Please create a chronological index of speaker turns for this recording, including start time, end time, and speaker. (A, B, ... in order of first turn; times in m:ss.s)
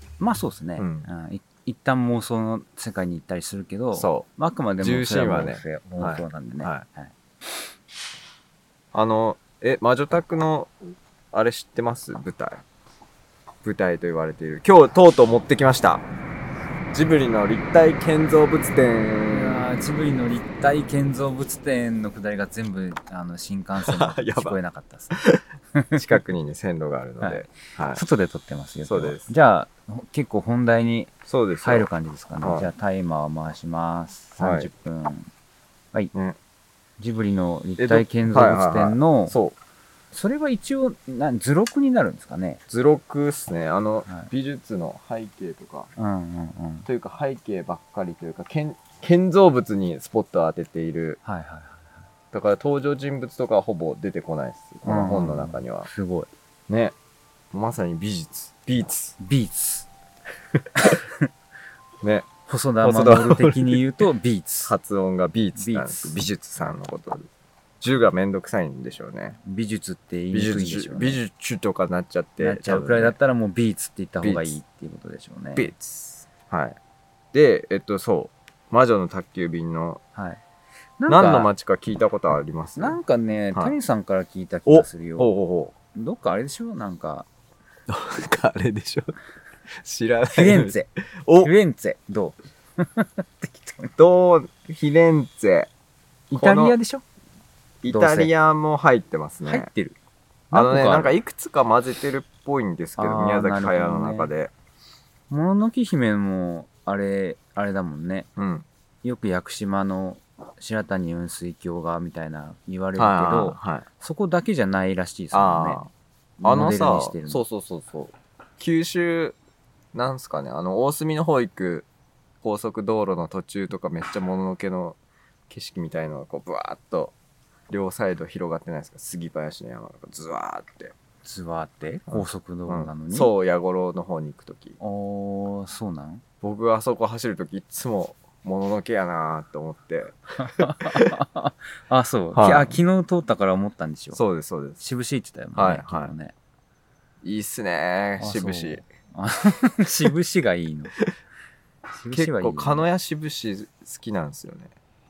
0:00.2-0:07.1 A
0:00.8-0:01.1 B
0:03.9-0:04.3 B
0:04.8-0:06.8 B
0:08.9-0:12.6 B
0:13.6-0:16.0 B
0:16.9-0:19.6 B
0:19.3-0:25.1 A
0:23.8-0:24.6 B
0:25.1-0:25.4 B
0:25.7-0:26.2 A
0:26.0-0:28.0 B
0:27.2-0:35.3 A
0:28.8-0:29.3 B
0:31.2-0:31.9 B
0:32.4-0:32.7 B
0:34.4-0:34.7 B
0:37.0-0:39.4 A
0:37.8-0:39.6 B
0:40.1-0:42.6 A
0:42.7-0:45.9 B
0:46.0-0:46.9 A
0:46.8-0:51.2 B
0:51.2-0:52.0 A
0:52.3-0:55.9 B
0:54.8-0:56.3 A
0:56.7-0:56.9 B
0:57.5-0:59.2 B
0:59.2-0:59.9 A
1:00.5-1:00.9 B
1:00.8-1:01.2 A
1:02.0-1:02.3 B
1:02.5-1:04.7 A
1:02.8-1:03.8 B
1:04.6-1:07.3 B
1:05.6-1:06.3 A
1:07.8-1:09.4 B
1:09.4-1:11.2 A
1:10.3-1:13.2 B
1:12.4-1:15.7 A
1:14.2-1:14.6 B
1:15.6-1:16.8 B
1:17.3-1:20.0 B
1:20.1-1:20.4 A
1:21.0-1:21.5 A
1:21.1-1:23.0 B
1:22.8-1:25.3 A
1:24.7-1:25.7 B
1:25.9-1:27.3 A
1:27.9-1:29.2 B
1:29.7-1:31.5 B
1:30.3-1:30.9 A
1:31.4-1:34.0 A
1:34.0-1:35.7 B
1:36.3-1:37.0 A
1:36.4-1:36.8 B
1:37.8-1:39.7 B
1:37.9-1:38.3 A
1:39.4-1:40.0 A
1:40.5-1:41.1 A
1:40.5-1:44.5 B
1:43.0-1:44.3 A
1:45.3-1:48.3 A
1:48.4-1:48.6 B
1:49.0-1:55.8 A
1:53.0-1:53.8 B
1:55.3-1:55.9 B
1:56.4-1:57.4 A
1:56.4-1:59.4 B
1:59.9-2:01.9 B
2:02.4-2:05.0 B
2:05.5-2:07.1 B
2:07.7-2:10.9 B
2:11.2-2:13.3 A
2:12.1-2:14.8 B
2:14.8-2:16.2 A
2:16.4-2:21.2 B
2:20.4-2:24.2 A
2:22.3-2:22.8 B
2:24.1-2:24.8 B
2:24.8-2:26.3 A
2:25.5-2:26.1 B
2:27.2-2:28.8 B
2:28.2-2:30.9 A
2:31.9-2:32.8 A
2:32.1-2:34.7 B